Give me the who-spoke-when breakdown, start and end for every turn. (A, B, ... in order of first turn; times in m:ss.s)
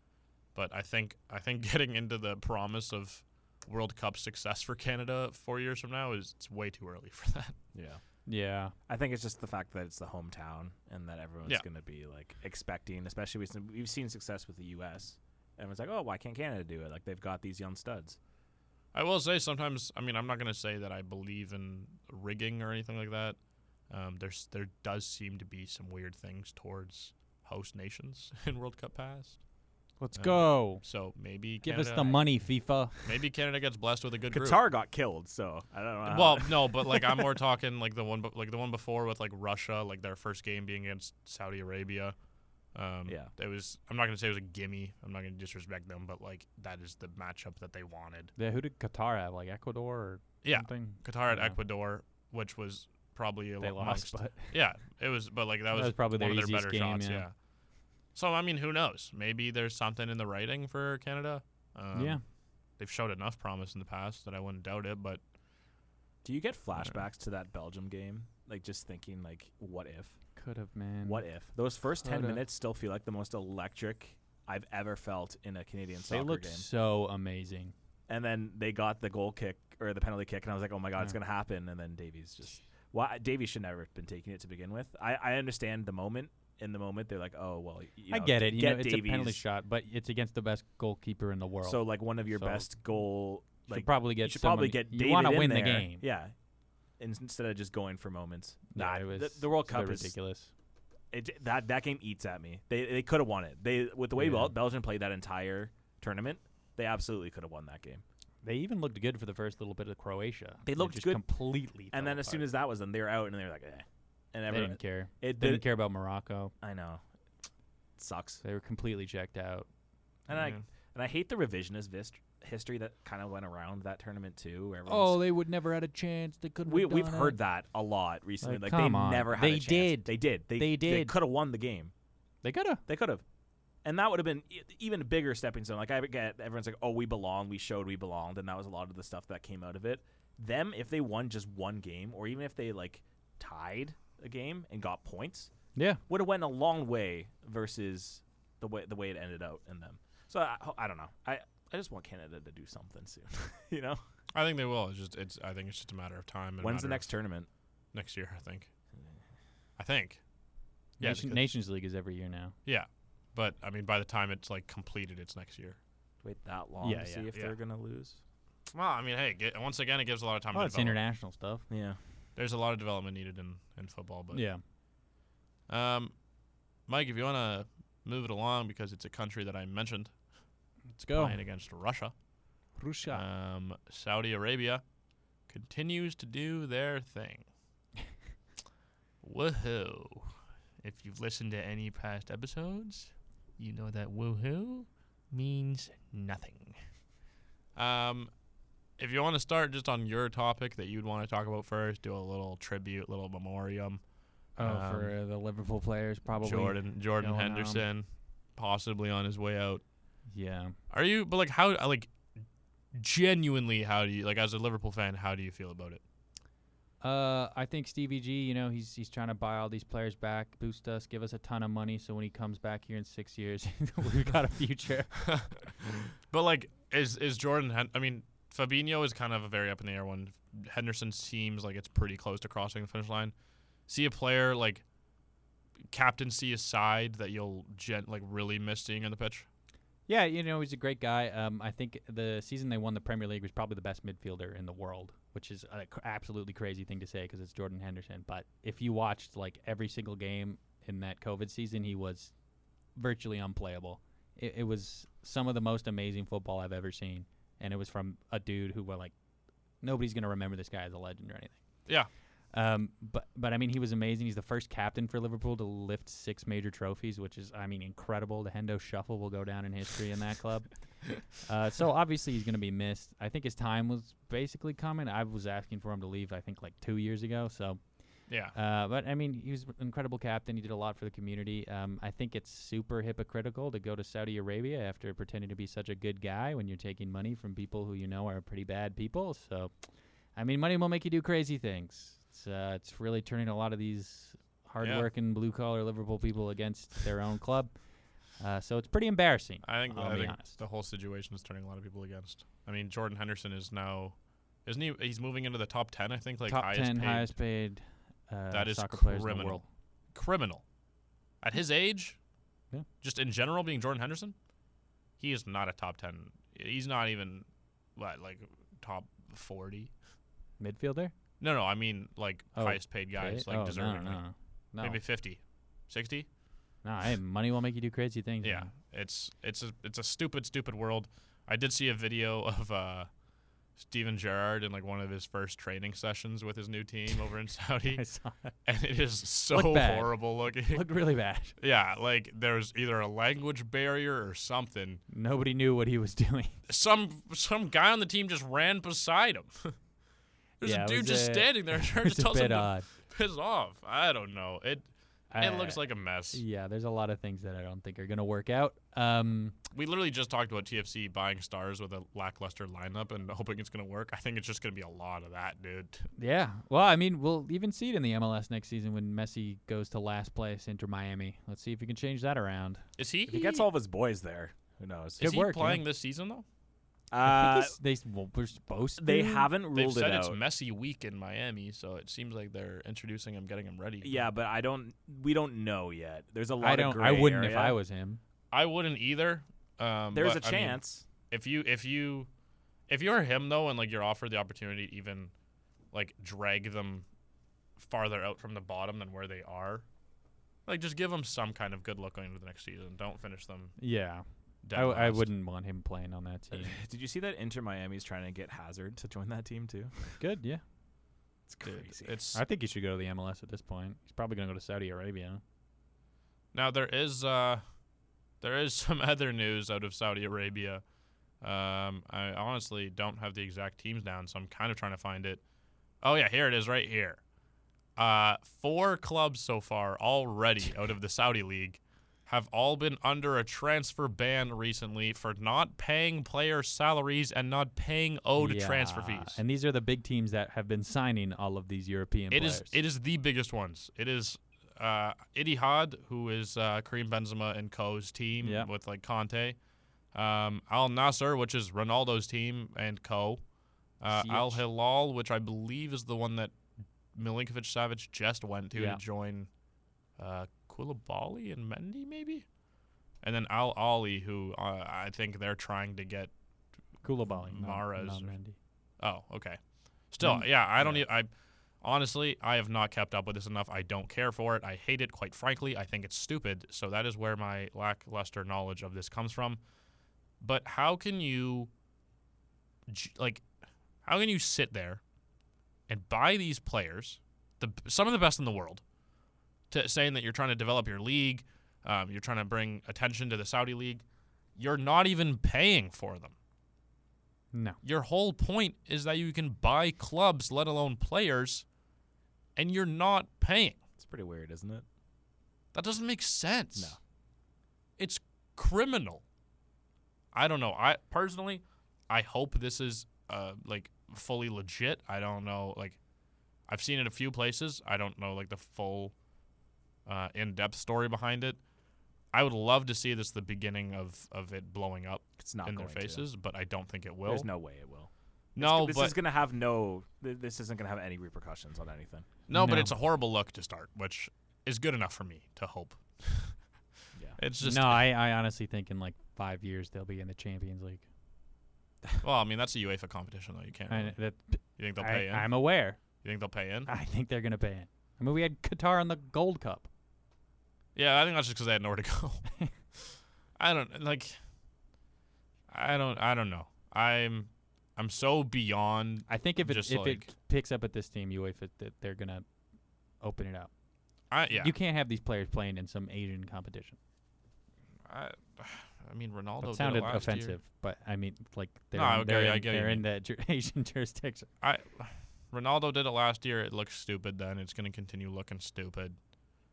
0:00.5-0:07.6 A
0:07.7-0:08.0 B
0:08.2-0:08.7 C
0:08.9-0:18.2 B
0:18.9-0:23.4 A
0:23.9-0:29.4 A
0:30.0-0:30.8 C
0:30.1-0:32.3 A
0:31.6-0:33.1 C
0:33.0-0:34.6 A
0:34.3-0:37.3 B
0:36.0-0:42.2 A
0:42.7-0:48.3 A
0:48.4-0:51.6 C
0:50.4-0:57.3 A
0:53.6-0:54.5 C
0:55.7-0:57.2 C
0:58.1-1:05.2 A
1:01.9-1:02.2 C
1:06.2-1:10.2 B
1:10.4-1:11.2 C
1:11.0-1:16.6 B
1:12.0-1:12.4 C
1:16.1-1:17.7 C
1:18.1-1:29.4 B
1:28.1-1:32.7 C
1:31.6-1:36.3 B
1:33.7-1:36.0 C
1:37.0-1:40.1 B
1:38.7-1:40.5 C
1:41.1-1:48.0 B
1:44.1-1:44.5 C
1:48.4-1:52.5 C
1:50.6-1:51.2 B
1:51.9-1:55.6 B
1:54.5-1:56.5 C
1:56.6-1:57.0 B
1:58.0-1:58.4 B
1:58.4-1:59.7 C
2:00.3-2:05.2 B
2:00.3-2:00.6 A
2:04.8-2:07.4 C
2:06.6-2:11.9 B
2:08.4-2:11.1 C
2:12.4-2:12.8 C
2:12.8-2:13.2 B
2:13.8-2:25.5 B
2:25.7-2:26.0 C
2:26.1-2:34.0 B
2:34.3-2:37.1 A
2:36.6-2:37.5 B
2:37.9-2:38.7 A
2:39.8-2:40.2 A
2:41.0-2:42.5 C
2:41.0-2:41.5 A
2:42.6-2:45.8 A
2:46.2-2:48.2 B
2:46.8-2:47.3 C
2:48.7-2:51.0 A
2:50.5-2:51.7 C
2:51.7-2:52.0 B
2:52.4-2:54.4 A
2:54.3-2:54.6 C
2:55.7-2:56.2 A
2:56.9-3:00.1 A
3:00.9-3:01.4 C
3:01.1-3:02.1 A
3:02.8-3:03.2 C
3:03.1-3:04.8 A
3:05.5-3:07.5 A
3:09.2-3:16.8 A
3:17.8-3:18.3 A
3:19.0-3:24.0 A
3:24.6-3:25.1 A
3:24.6-3:27.8 C
3:26.4-3:29.8 A
3:30.3-3:30.7 C
3:30.9-3:32.1 A
3:32.9-3:36.0 A
3:37.0-3:45.2 C
3:45.2-3:53.3 A
3:53.9-3:54.8 A
3:55.9-3:59.5 A
4:00.1-4:12.3 C
4:12.9-4:19.1 C
4:19.8-4:21.8 C
4:22.5-4:49.7 C
4:38.3-4:38.5 A
4:50.3-5:00.6 C
4:54.8-4:55.1 A
4:59.6-5:07.3 A
5:06.4-5:09.6 C
5:08.5-5:09.6 A
5:10.1-5:10.6 A
5:11.4-5:12.2 A
5:13.0-5:14.3 A
5:15.2-5:19.9 A
5:20.6-5:21.1 C
5:21.4-5:24.2 A
5:22.5-5:25.0 C
5:24.8-5:26.3 A
5:26.8-5:28.7 C
5:28.4-5:33.1 A
5:33.8-5:38.0 A
5:37.9-5:38.5 C
5:38.6-5:40.8 A
5:39.5-5:41.6 C
5:41.6-5:45.0 A
5:45.1-5:46.6 C
5:46.7-5:49.8 A
5:50.6-5:56.4 A
5:50.6-5:52.9 C
5:55.3-5:59.6 C
5:59.7-6:06.1 A
6:06.2-6:12.8 C
6:13.0-6:13.6 A
6:13.3-6:15.2 B
6:15.2-6:15.8 C
6:15.2-6:16.4 A
6:17.1-6:17.8 B
6:17.2-6:19.5 C
6:19.0-6:20.4 B
6:19.7-6:24.2 A
6:24.0-6:27.8 B
6:26.6-6:28.2 C
6:28.5-6:32.3 A
6:30.1-6:31.0 B
6:32.9-6:35.3 A
6:35.9-6:37.0 A
6:37.8-6:39.8 A
6:40.6-6:43.8 A
6:43.8-6:46.8 C
6:44.6-6:45.3 A
6:46.5-6:50.2 B
6:50.2-6:50.6 C
6:51.5-6:52.1 B
6:51.6-6:52.4 A
6:52.3-6:55.4 C
6:56.5-6:57.6 A
6:58.4-7:00.8 A
7:01.4-7:05.4 A
7:06.0-7:07.2 A
7:08.0-7:19.4 A
7:18.4-7:22.7 C
7:22.3-7:29.6 A
7:28.4-7:28.7 C
7:30.1-7:33.4 A
7:34.0-7:36.5 A
7:34.1-7:34.6 C
7:37.1-7:39.5 A
7:38.7-7:39.0 C
7:40.2-7:42.4 A
7:43.2-7:46.3 A
7:47.0-7:48.6 C
7:47.3-7:48.3 A
7:49.0-7:51.3 A
7:50.2-7:51.0 C
7:51.8-7:59.6 A
8:00.4-8:01.7 A
8:02.9-8:03.4 A
8:04.0-8:05.0 A
8:05.9-8:08.8 A
8:09.7-8:14.0 A
8:14.6-8:16.3 A
8:17.5-8:17.8 C
8:17.8-8:21.6 A
8:22.6-8:23.8 A
8:24.0-8:24.8 B
8:25.7-8:27.0 A
8:28.0-8:29.2 A
8:30.3-8:36.0 A
8:36.7-8:39.1 A
8:40.0-8:41.6 A
8:42.3-8:47.5 A
8:45.4-8:46.2 B
8:47.2-8:52.3 B
8:48.6-8:49.1 A
8:52.5-8:56.6 A
8:52.5-8:52.9 C
8:57.4-8:58.1 A
8:57.6-9:01.0 C
9:02.2-9:04.2 A
9:03.9-9:06.0 C
9:04.8-9:05.6 A
9:06.2-9:06.9 A
9:06.8-9:09.9 C
9:10.9-9:13.0 A
9:13.6-9:14.4 A
9:15.7-9:20.3 A
9:19.3-9:22.4 C
9:23.2-9:23.7 C
9:24.3-9:24.7 A
9:24.5-9:27.0 C
9:28.1-9:30.6 A
9:29.6-9:34.5 C
9:31.9-9:33.0 A
9:34.6-9:39.2 A